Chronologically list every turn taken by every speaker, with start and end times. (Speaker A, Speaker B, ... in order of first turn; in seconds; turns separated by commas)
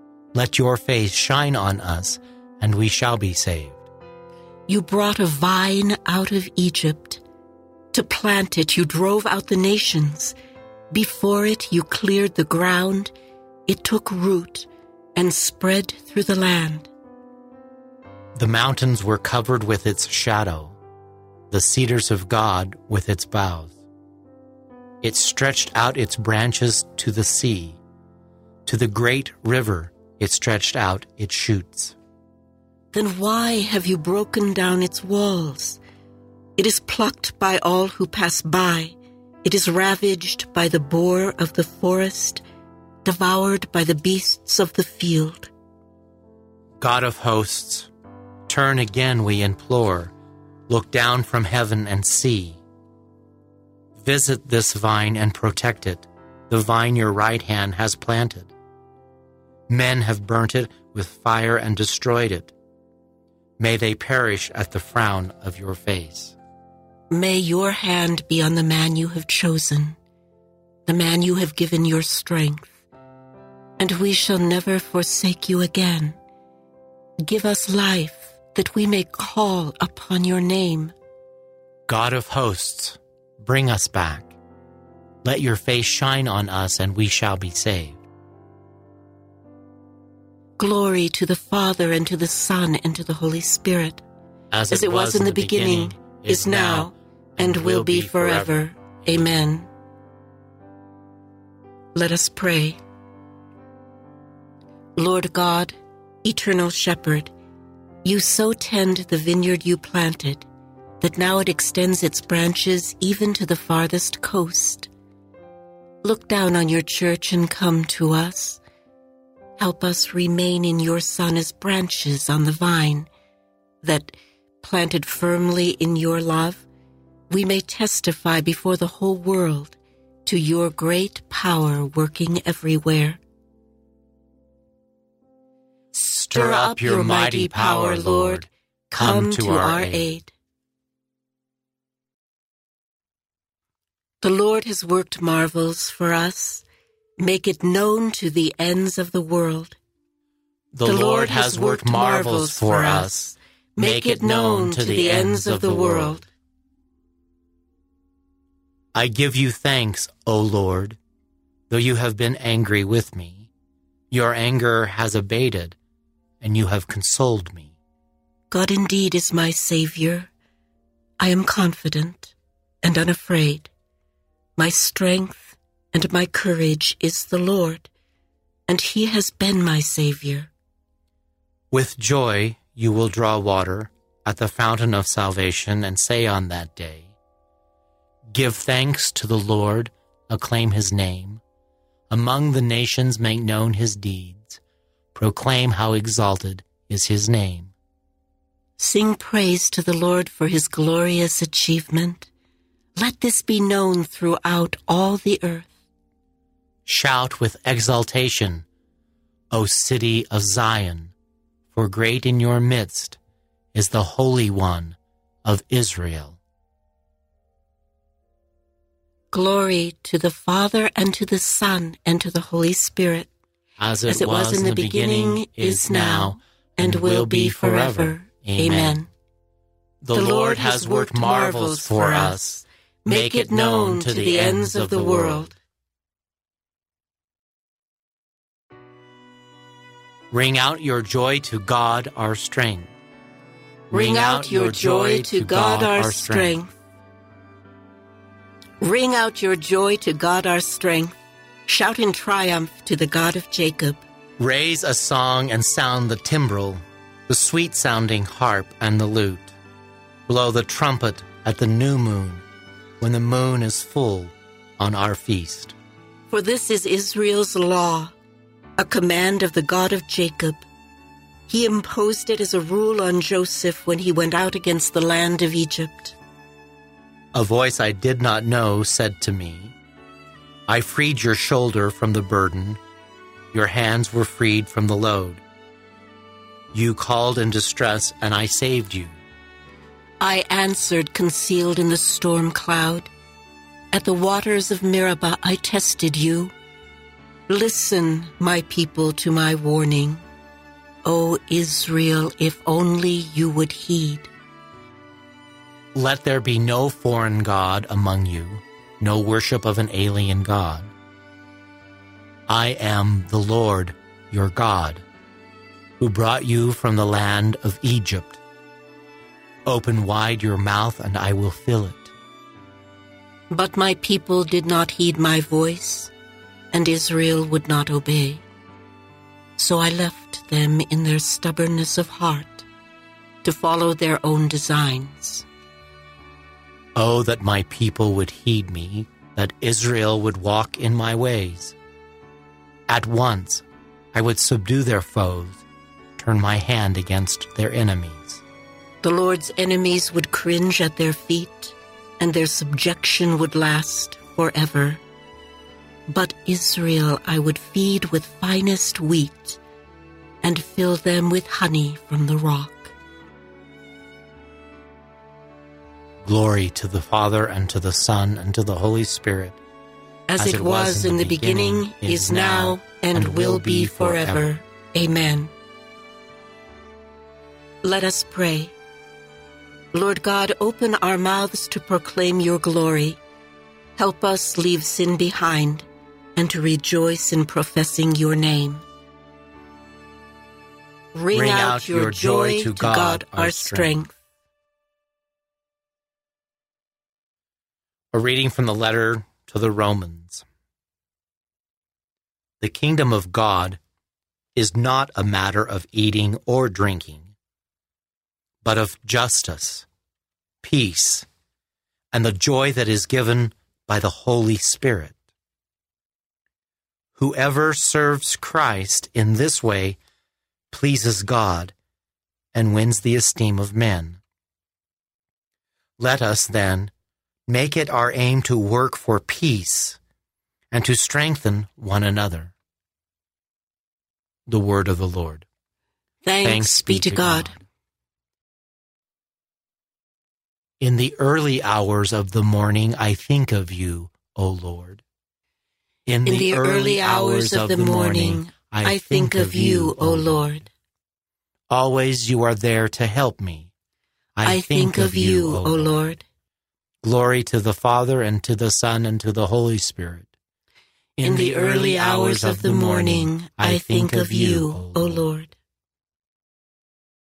Speaker A: 0.3-3.9, Speaker B: 4.7-7.2, Speaker B: 7.9-10.3, Speaker B: 10.9-13.1, Speaker B: 13.7-16.9, Speaker A: 18.3-20.8, Speaker A: 21.5-23.8, Speaker A: 25.0-27.8, Speaker A: 28.6-31.9, Speaker B: 32.9-35.8, Speaker B: 36.6-42.4, Speaker B: 43.0-45.5, Speaker A: 46.8-47.9, Speaker A: 48.5-50.1, Speaker A: 50.7-52.6, Speaker A: 54.0-58.5, Speaker A: 59.7-62.5, Speaker A: 63.6-66.3, Speaker B: 67.1-70.0, Speaker B: 70.8-72.8, Speaker B: 73.8-76.2, Speaker B: 77.2-80.9, Speaker A: 81.9-84.3, Speaker A: 85.2-88.0, Speaker B: 90.6-94.0, Speaker A: 94.5-99.3, Speaker B: 94.7-99.7, Speaker B: 101.9-102.8, Speaker B: 105.0-107.3, Speaker B: 108.0-110.5, Speaker B: 111.0-114.9, Speaker B: 116.0-118.6, Speaker B: 119.6-123.1, Speaker B: 123.8-126.7, Speaker B: 127.3-133.2, Speaker B: 135.9-140.3, Speaker A: 136.0-140.1, Speaker B: 144.2-146.6, Speaker B: 147.2-149.8, Speaker A: 150.7-156.2, Speaker B: 150.8-156.2, Speaker A: 158.9-161.0, Speaker A: 161.7-163.5, Speaker A: 164.1-165.8, Speaker A: 166.4-167.7, Speaker B: 168.5-170.3, Speaker B: 171.2-173.7, Speaker B: 174.6-177.9, Speaker B: 178.7-180.5, Speaker A: 181.7-187.1, Speaker A: 188.3-191.4, Speaker A: 192.1-194.6, Speaker A: 195.1-197.7, Speaker B: 198.8-202.3, Speaker B: 202.9-205.7, Speaker A: 206.8-208.6, Speaker A: 209.5-211.1, Speaker A: 211.7-213.2, Speaker A: 213.7-216.4, Speaker B: 219.3-223.3, Speaker A: 223.8-229.0, Speaker B: 224.1-229.1, Speaker A: 230.0-235.5, Speaker B: 230.1-235.5, Speaker A: 240.3-242.9, Speaker A: 243.9-246.6, Speaker B: 243.9-246.8, Speaker B: 248.8-254.0, Speaker A: 254.4-259.5, Speaker A: 260.3-262.4, Speaker A: 263.0-265.8, Speaker B: 266.3-268.1, Speaker B: 268.8-270.6, Speaker B: 271.5-276.1, Speaker A: 277.3-279.7, Speaker A: 280.7-282.8, Speaker A: 283.5-285.4, Speaker A: 286.7-289.2, Speaker B: 290.2-293.1, Speaker B: 293.9-296.5, Speaker B: 297.5-300.2, Speaker B: 301.0-304.3, Speaker A: 305.9-310.9, Speaker A: 312.5-315.0, Speaker A: 316.0-318.4, Speaker A: 319.6-322.1, Speaker B: 323.5-326.1, Speaker B: 326.7-328.4, Speaker B: 329.6-332.6, Speaker B: 333.4-335.4, Speaker A: 336.9-341.7, Speaker A: 342.9-345.6, Speaker A: 346.2-348.4, Speaker B: 349.0-355.0, Speaker B: 356.1-359.6, Speaker B: 360.4-362.9, Speaker A: 366.2-369.6, Speaker B: 370.3-375.5, Speaker A: 370.4-374.5, Speaker B: 377.8-378.7, Speaker B: 379.9-383.2, Speaker B: 384.0-388.9, Speaker B: 391.1-394.2, Speaker A: 391.3-393.9, Speaker A: 398.1-400.4, Speaker A: 402.6-403.8, Speaker A: 404.6-407.3, Speaker A: 408.6-409.8, Speaker A: 410.6-411.3, Speaker A: 412.1-415.1, Speaker A: 417.1-420.0, Speaker A: 420.7-421.7, Speaker A: 422.5-424.2, Speaker A: 426.0-426.9, Speaker A: 427.5-430.0, Speaker A: 430.7-432.5, Speaker A: 434.5-435.4, Speaker B: 436.2-437.5, Speaker A: 436.4-437.6, Speaker A: 440.8-445.0, Speaker A: 446.1-450.6, Speaker B: 446.2-450.7, Speaker A: 451.7-453.7, Speaker A: 454.4-456.0, Speaker B: 454.4-456.2, Speaker A: 457.0-460.3, Speaker A: 461.2-465.3, Speaker B: 461.2-465.5